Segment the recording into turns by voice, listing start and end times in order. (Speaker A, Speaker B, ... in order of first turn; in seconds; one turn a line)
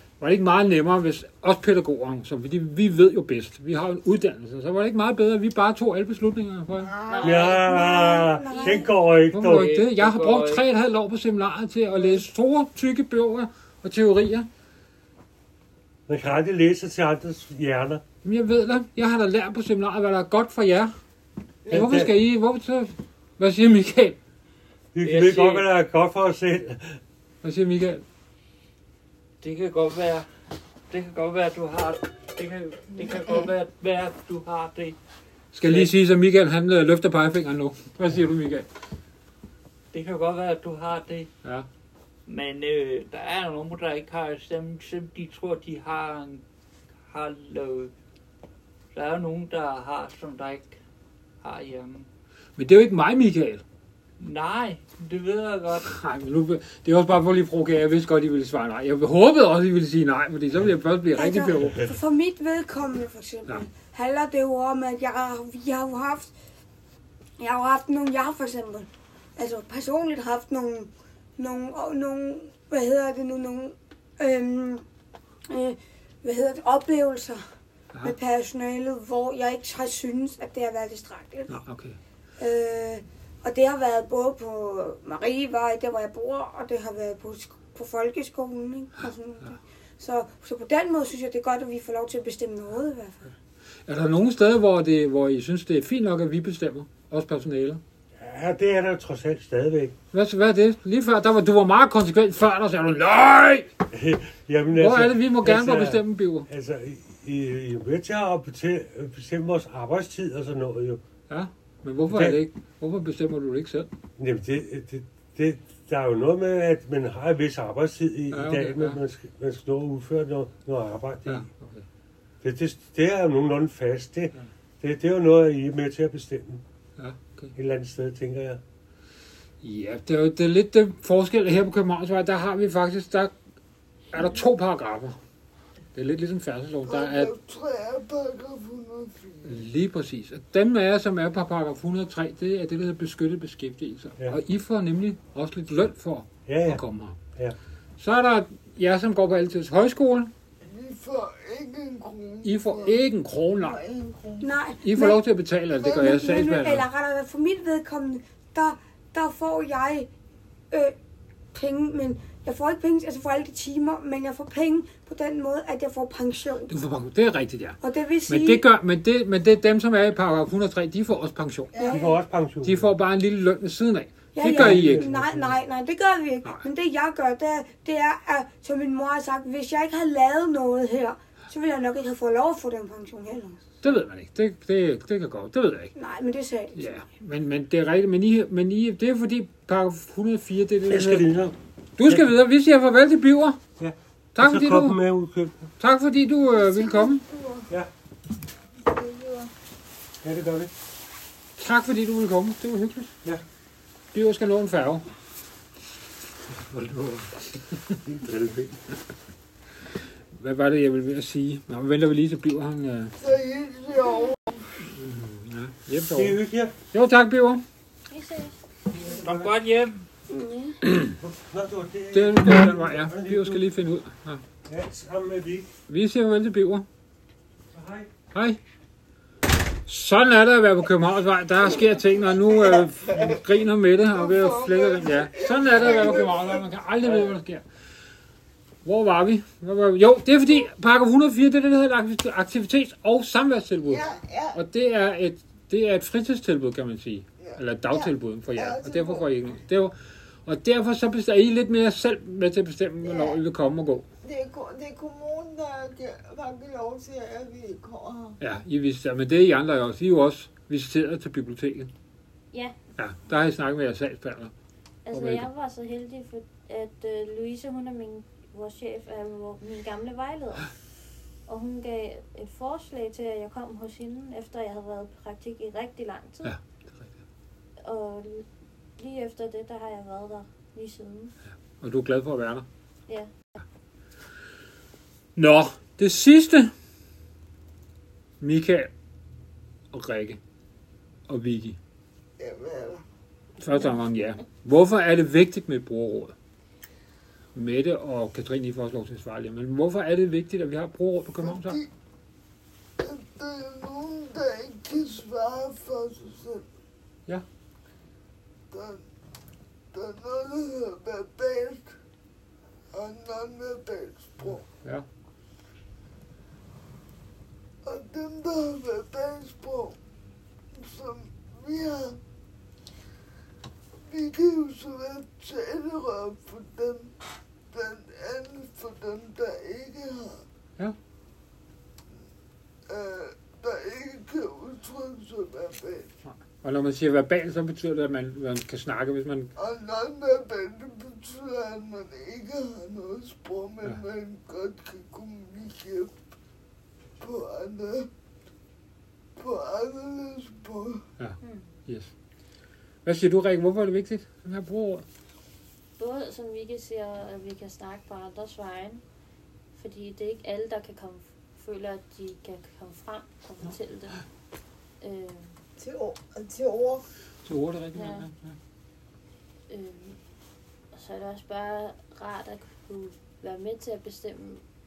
Speaker A: 0.2-6.9
Speaker B: 6.8-7.7
Speaker C: 7.1-7.6
Speaker D: 7.2-9.7
Speaker E: 7.4-8.9
Speaker C: 8.4-8.9
Speaker A: 9.3-14.5
Speaker F: 9.4-10.6
Speaker D: 16.1-18.0
Speaker A: 18.2-20.9
Speaker D: 21.7-22.1
Speaker A: 21.7-24.2
Speaker D: 24.9-27.0
Speaker F: 25.0-25.7
Speaker A: 27.4-28.0
Speaker F: 29.4-30.3
Speaker F: 30.9-35.0
Speaker A: 35.5-38.7
Speaker F: 35.6-35.9
Speaker F: 39.9-41.3
Speaker F: 42.3-46.4
Speaker F: 47.1-47.9
Speaker F: 48.9-50.8
Speaker F: 51.4-52.1
Speaker A: 52.6-53.6
Speaker F: 54.2-55.9
Speaker A: 55.9-61.9
Speaker E: 61.1-66.3
Speaker E: 67.4-74.8
Speaker E: 75.5-77.4
Speaker E: 78.0-81.6
Speaker A: 81.5-82.0
Speaker E: 82.4-93.3
Speaker A: 93.9-97.8
Speaker D: 98.2-99.9
Speaker A: 100.1-103.7
Speaker D: 103.9-111.0
Speaker A: 104.7-106.5
Speaker A: 111.3-113.9
Speaker D: 112.1-112.4
Speaker D: 114.2-121.5
Speaker A: 118.3-119.0
Speaker A: 121.3-121.8
Speaker D: 122.4-126.6
Speaker A: 127.0-127.5
Speaker D: 127.5-128.6
Speaker A: 129.6-133.3
Speaker A: 134.1-135.2
Speaker A: 135.9-137.3
Speaker G: 136.8-139.6
Speaker A: 139.4-147.2
Speaker D: 146.4-146.8
Speaker A: 148.0-150.3
Speaker G: 150.6-153.0
Speaker A: 152.4-153.8
Speaker B: 153.6-154.6
Speaker E: 154.4-155.2
Speaker A: 154.8-156.9
Speaker E: 155.7-160.1
Speaker E: 161.5-166.7
Speaker A: 166.7-171.7
Speaker E: 167.8-168.6
Speaker B: 171.7-172.1
Speaker E: 171.8-172.1
Speaker D: 171.9-172.9
Speaker A: 172.6-175.1
Speaker E: 174.3-183.6
Speaker D: 174.4-175.6
Speaker A: 183.8-185.9
Speaker E: 185.9-187.0
Speaker A: 186.7-191.3
Speaker D: 190.9-191.5
Speaker A: 192.0-193.6
Speaker D: 193.8-195.7
Speaker A: 194.3-195.0
Speaker A: 195.8-197.2
Speaker B: 196.7-197.7
Speaker B: 198.8-199.5
Speaker D: 200.2-200.7
Speaker A: 201.6-203.1
Speaker A: 204.1-205.1
Speaker A: 206.7-208.0
Speaker D: 208.0-208.8
Speaker A: 210.3-213.2
Speaker G: 213.2-214.7
Speaker A: 214.9-217.6
Speaker D: 216.1-216.7
Speaker C: 218.1-218.6
Speaker F: 219.0-219.9
Speaker D: 219.0-219.5
Speaker E: 220.3-220.8
Speaker A: 220.9-221.2
Speaker D: 221.1-223.6
Speaker A: 222.1-224.4
Speaker D: 224.6-225.7
Speaker A: 225.9-226.9
Speaker D: 227.7-228.1
Speaker A: 228.3-228.6
Speaker A: 229.8-237.6
Speaker G: 234.1-236.7
Speaker B: 235.8-236.3
Speaker A: 238.8-254.1
Speaker B: 243.8-244.6
Speaker B: 247.9-249.3
Speaker B: 253.0-253.4
Speaker B: 254.2-258.4
Speaker A: 258.4-261.9
Speaker C: 262.5-262.8
Speaker A: 263.0-264.5
Speaker C: 265.1-270.7
Speaker A: 265.1-265.5
Speaker C: 271.5-276.6
Speaker A: 276.4-277.1
Speaker C: 277.8-278.5
Speaker C: 279.0-281.3
Speaker A: 281.8-282.6
Speaker C: 283.1-283.3
Speaker A: 285.4-286.7
Speaker A: 288.4-288.9
Speaker A: 289.9-290.4
Speaker A: 291.3-291.8
Speaker G: 292.4-293.0
Speaker A: 293.6-296.3
Speaker A: 297.5-301.8
Speaker G: 301.4-301.9
Speaker G: 303.0-306.7
Speaker G: 308.7-309.0
Speaker G: 309.9-311.9
Speaker G: 312.9-314.6
Speaker A: 314.8-315.1
Speaker G: 317.8-320.0
Speaker G: 320.7-322.2
Speaker G: 324.1-327.1
Speaker G: 327.7-330.4
Speaker G: 332.9-336.1
Speaker A: 336.2-339.5
Speaker G: 339.6-346.1
Speaker G: 347.2-348.1
Speaker G: 349.4-351.0
Speaker A: 351.2-352.1
Speaker C: 351.4-351.7
Speaker A: 353.0-355.0
Speaker C: 356.0-359.0
Speaker C: 359.7-364.2
Speaker C: 365.0-365.6
Speaker B: 365.8-367.1
Speaker A: 367.4-368.6
Speaker C: 367.9-368.3
Speaker C: 369.7-370.2
Speaker C: 370.9-374.6